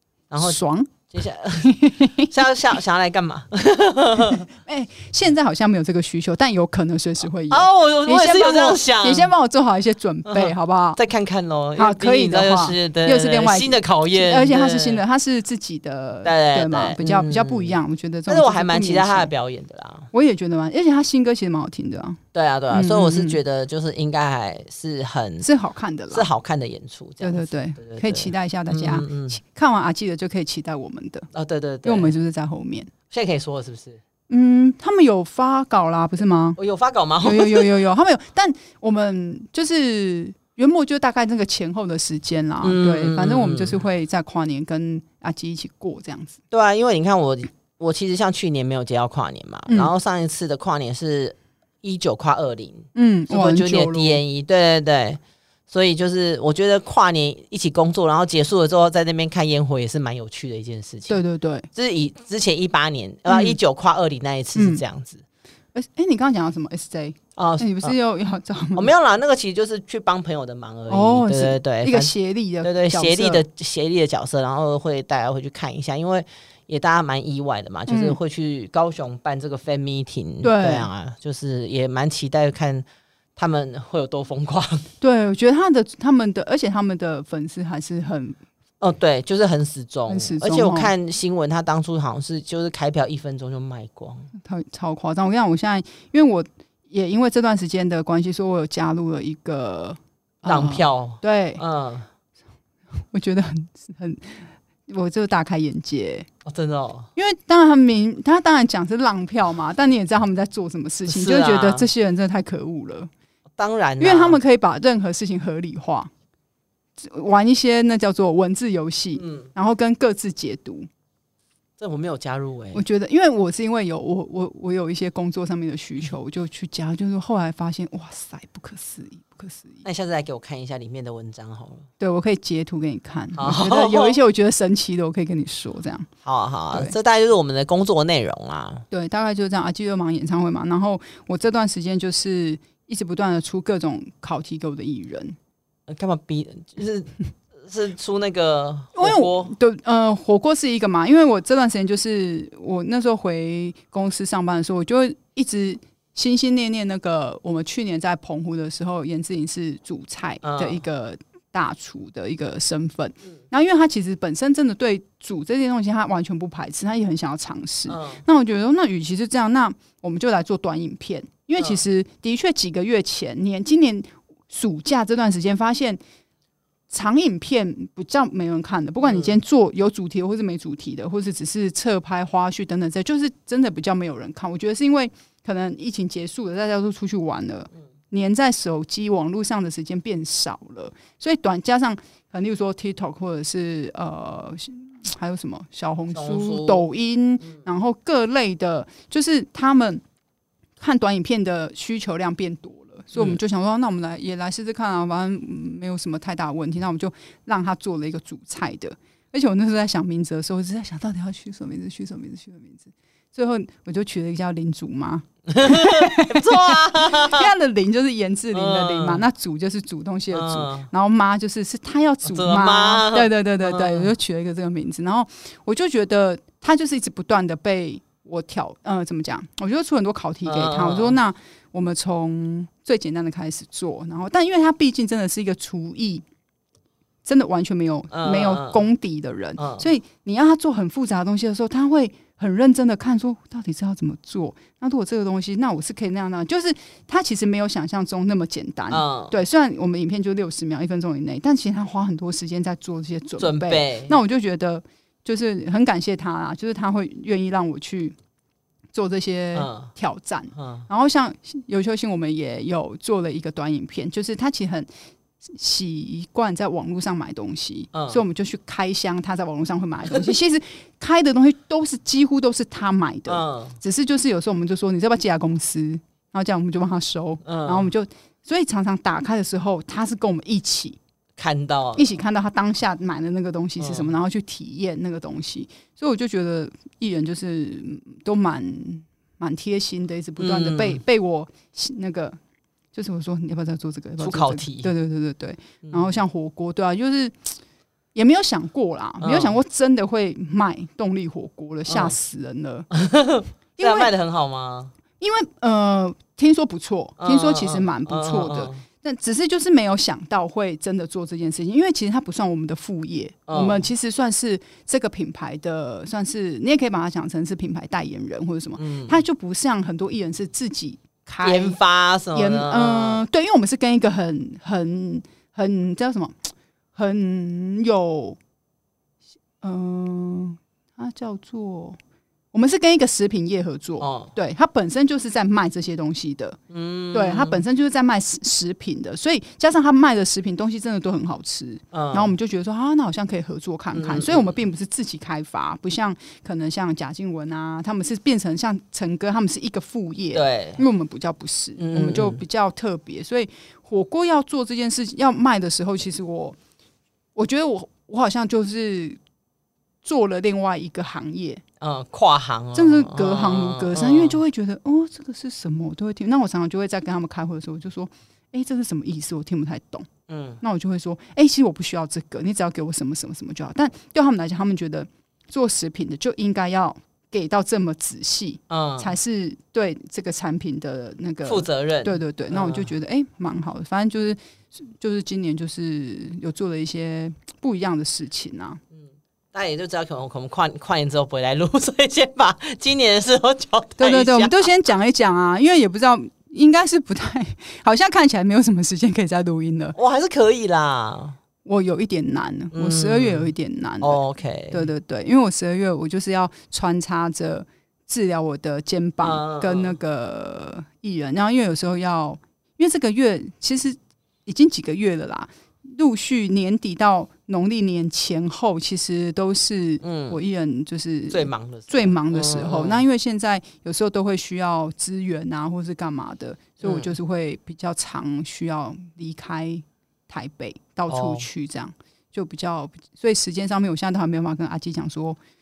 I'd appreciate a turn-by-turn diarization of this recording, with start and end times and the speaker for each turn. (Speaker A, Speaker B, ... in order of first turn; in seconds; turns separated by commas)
Speaker A: 0.3-4.5, Speaker B: 0.4-1.0, Speaker B: 1.6-2.3, Speaker B: 4.5-11.0, Speaker A: 7.5-9.3, Speaker A: 10.3-15.0, Speaker B: 11.8-19.3, Speaker A: 16.2-20.1, Speaker B: 20.1-22.2, Speaker A: 22.3-25.5, Speaker B: 22.7-23.4, Speaker B: 25.4-26.3, Speaker A: 26.1-29.4, Speaker B: 27.2-31.3, Speaker A: 31.3-32.1, Speaker B: 31.8-32.9, Speaker A: 33.1-34.0, Speaker B: 34.3-36.6, Speaker A: 36.6-37.7, Speaker B: 37.2-46.4, Speaker A: 42.6-43.8, Speaker A: 46.5-61.2, Speaker B: 49.7-49.9, Speaker B: 53.0-54.2, Speaker B: 61.1-61.7, Speaker A: 61.7-65.2, Speaker B: 63.3-63.6, Speaker B: 64.5-64.8, Speaker B: 65.7-68.9, Speaker A: 67.4-68.0, Speaker A: 68.8-82.8, Speaker B: 70.9-73.4, Speaker B: 77.9-78.2, Speaker B: 80.4-80.9, Speaker A: 83.4-84.9, Speaker B: 85.0-88.4, Speaker A: 88.8-94.3, Speaker B: 90.1-90.9, Speaker B: 94.4-101.6, Speaker A: 100.5-102.1, Speaker B: 103.1-106.3, Speaker A: 106.5-107.1, Speaker B: 107.2-113.1, Speaker A: 111.1-111.9, Speaker A: 113.6-114.4, Speaker B: 114.0-116.1, Speaker B: 117.0-120.9, Speaker A: 119.2-119.5, Speaker A: 121.8-122.8, Speaker B: 122.7-129.8, Speaker A: 129.8-131.9, Speaker B: 132.0-136.1, Speaker A: 133.4-134.2, Speaker A: 136.2-138.8, Speaker B: 138.9-145.4, Speaker A: 145.9-149.5, Speaker B: 148.9-176.0, Speaker A: 160.4-160.8, Speaker A: 167.9-168.2, Speaker B: 176.9-200.0, Speaker A: 179.1-179.3, Speaker A: 196.1-196.9, Speaker B: 200.8-236.2, Speaker A: 215.5-217.5, Speaker A: 218.5-219.3, Speaker A: 220.3-220.9, Speaker A: 222.2-224.1, Speaker A: 230.5-231.2, Speaker B: 237.2-258.1, Speaker A: 238.1-238.8, Speaker A: 239.6-239.9, Speaker A: 248.9-249.3, Speaker A: 253.4-254.2, Speaker B: 258.9-264.9, Speaker A: 259.5-259.9, Speaker A: 260.6-260.9, Speaker B: 265.4-281.0, Speaker A: 267.9-268.2, Speaker A: 273.3-273.8, Speaker A: 277.4-277.9, Speaker A: 281.4-282.1, Speaker B: 282.0-292.4, Speaker A: 283.8-284.1, Speaker A: 290.4-291.0, Speaker B: 292.9-297.5, Speaker A: 294.2-294.9, Speaker A: 295.8-296.1, Speaker B: 298.1-302.9, Speaker A: 299.2-299.6, Speaker A: 301.9-302.1, Speaker A: 302.9-304.9, Speaker B: 303.8-304.1, Speaker B: 305.2-321.8, Speaker A: 307.2-308.8, Speaker A: 313.5-313.9, Speaker A: 318.8-319.2, Speaker A: 321.4-323.2, Speaker B: 322.3-326.4, Speaker B: 326.9-328.4, Speaker B: 329.6-332.0, Speaker B: 332.5-336.6, Speaker A: 334.0-334.3, Speaker A: 336.7-337.6, Speaker B: 337.1-356.6, Speaker A: 341.9-342.3, Speaker A: 343.9-344.6, Speaker A: 350.3-350.8, Speaker A: 351.8-352.4, Speaker B: 357.4-359.2, Speaker B: 360.0-361.6, Speaker A: 361.8-364.4, Speaker B: 362.7-370.1, Speaker A: 370.3-370.6, Speaker B: 370.6-388.8, Speaker A: 378.7-379.1, Speaker A: 381.4-382.9, Speaker A: 388.9-394.5, Speaker B: 394.0-400.0, Speaker A: 399.9-401.4, Speaker B: 401.6-435.4, Speaker A: 402.7-404.9, Speaker A: 409.2-410.0, Speaker A: 420.0-420.4, Speaker A: 421.3-423.1, Speaker A: 426.8-427.1, Speaker A: 431.1-431.5